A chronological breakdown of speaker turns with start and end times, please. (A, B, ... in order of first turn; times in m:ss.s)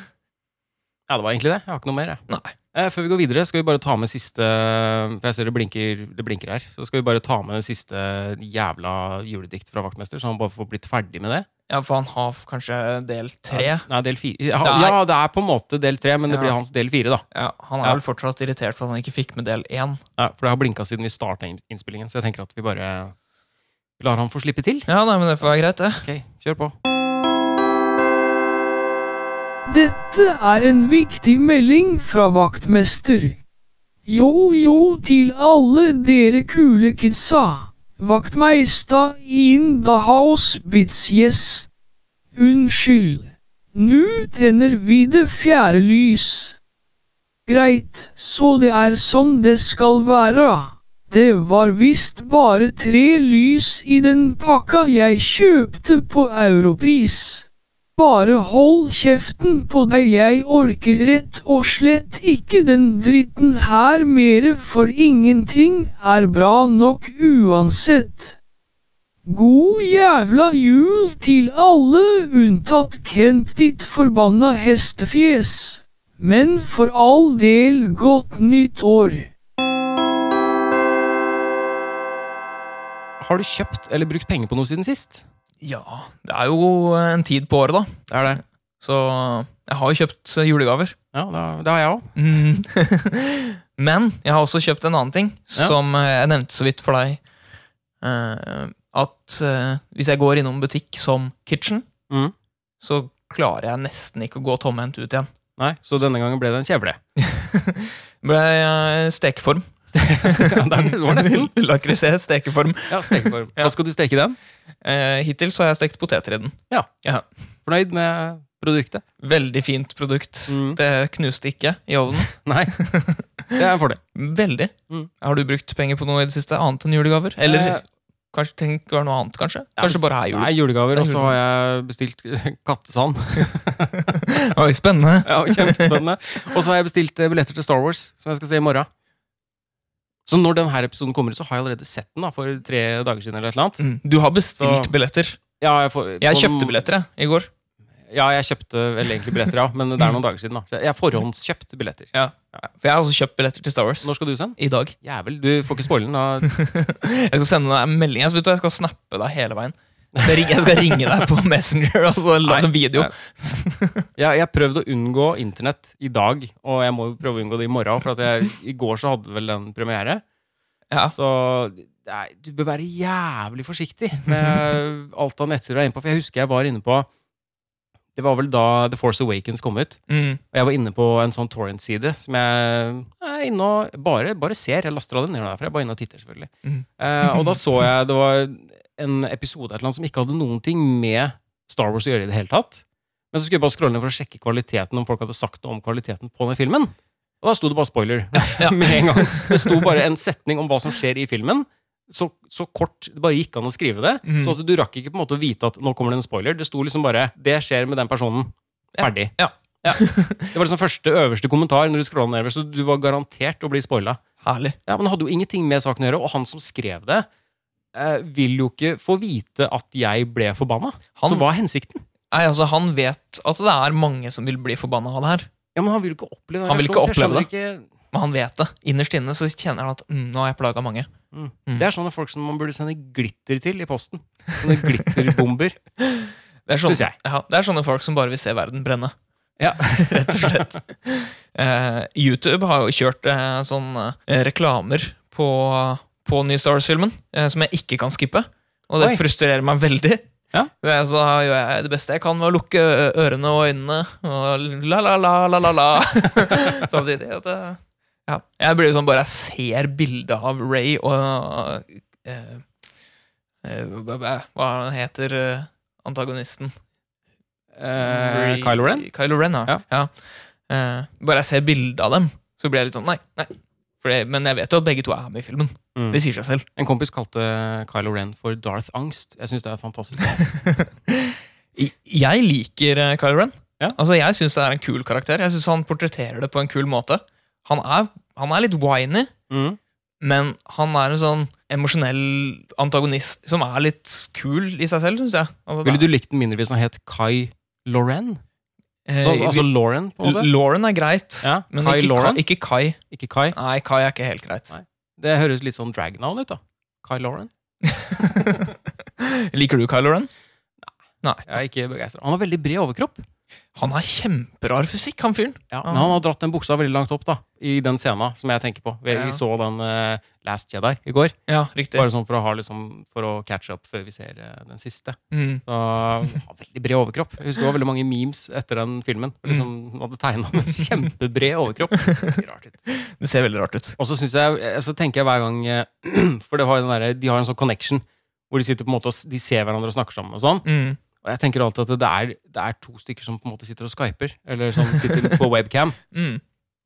0:01.1-0:02.2 A
0:02.3-0:02.5 B
0:02.7-0:11.5 A
0:11.7-0:13.8 B
0:13.5-0:17.2 A
0:14.6-0:15.0 B
0:16.3-0:16.5 B
0:17.3-0:20.0 B
0:20.2-0:23.1 A
0:24.0-0:24.9 A
0:24.9-0:26.1 B
0:26.0-0:26.8 A
0:29.7-0:33.4 C
0:34.0-0:41.7 C
0:42.4-0:46.6 C
0:47.5-0:57.4 C
0:58.0-1:08.4 C
1:09.2-1:19.3 C
1:23.2-1:25.2 A
1:25.6-1:28.1 B
1:28.1-1:28.4 A
1:28.8-1:31.0 B
1:31.1-1:32.1 A
1:32.2-1:37.2 B
1:38.0-1:41.9 B
1:42.1-1:42.3 A
1:42.8-1:45.3 B
1:45.6-1:47.0 A
1:47.2-1:53.7 B
1:49.9-1:51.5 A
1:52.9-1:54.4 A
1:54.8-1:57.2 B
1:57.6-1:59.0 A
1:59.2-2:03.5 B
2:00.5-2:00.8 A
2:02.3-2:02.8 A
2:03.5-2:04.0 A
2:04.1-2:11.3 B
2:07.4-2:07.8 A
2:09.8-2:14.1 A
2:14.1-2:16.0 B
2:15.2-2:18.9 A
2:20.2-2:23.8 A
2:23.8-2:25.4 B
2:24.6-2:24.9 A
2:25.6-2:26.8 A
2:26.2-2:27.5 B
2:28.1-2:32.1 A
2:32.1-2:34.9 B
2:34.0-2:36.5 A
2:36.4-2:44.1 B
2:40.2-2:40.7 A
2:42.4-2:43.1 A
2:44.2-2:50.2 A
2:51.1-2:57.1 A
2:54.3-2:54.7 B
2:58.1-3:00.0 A
3:00.1-3:00.4 B
3:00.5-3:34.2 A
3:06.6-3:07.6 B
3:18.6-3:19.9 B
3:24.2-3:24.6 B
3:29.0-3:30.5 B
3:34.4-3:34.8 B
3:34.8-3:37.2 A
3:37.9-3:42.0 A
3:41.2-3:41.5 B
3:42.3-3:45.5 B
3:45.7-3:47.9 A
3:46.6-3:47.5 B
3:48.1-3:51.1 B
3:51.3-3:55.8 A
3:56.1-3:59.1 B
3:56.8-3:57.1 A
3:59.6-4:00.7 A
3:59.8-4:10.3 B
4:10.8-4:22.6 B
4:23.6-4:26.7 B
4:27.7-4:29.1 A
4:28.0-4:30.1 B
4:30.7-4:36.6 B
4:35.9-4:36.2 A
4:36.8-4:40.4 A
4:40.6-4:49.3 B
4:49.5-4:49.8 A
4:50.2-4:56.1 B
4:55.8-4:58.4 A
4:59.1-5:03.0 B
4:59.2-5:00.5 A
5:01.4-5:02.4 A
5:03.1-5:03.6 A
5:03.5-5:04.7 B
5:04.7-5:07.5 A
5:07.9-5:08.7 B
5:09.2-5:10.3 B
5:11.4-5:13.2 A
5:13.8-5:16.2 B
5:15.7-5:21.4 A
5:19.1-5:19.4 B
5:21.5-5:22.1 B
5:21.9-5:32.8 A
5:25.3-5:25.6 B
5:32.9-5:34.0 B
5:34.0-5:46.0 A
5:40.6-5:41.0 B
5:44.9-5:45.4 B
5:46.1-5:46.4 B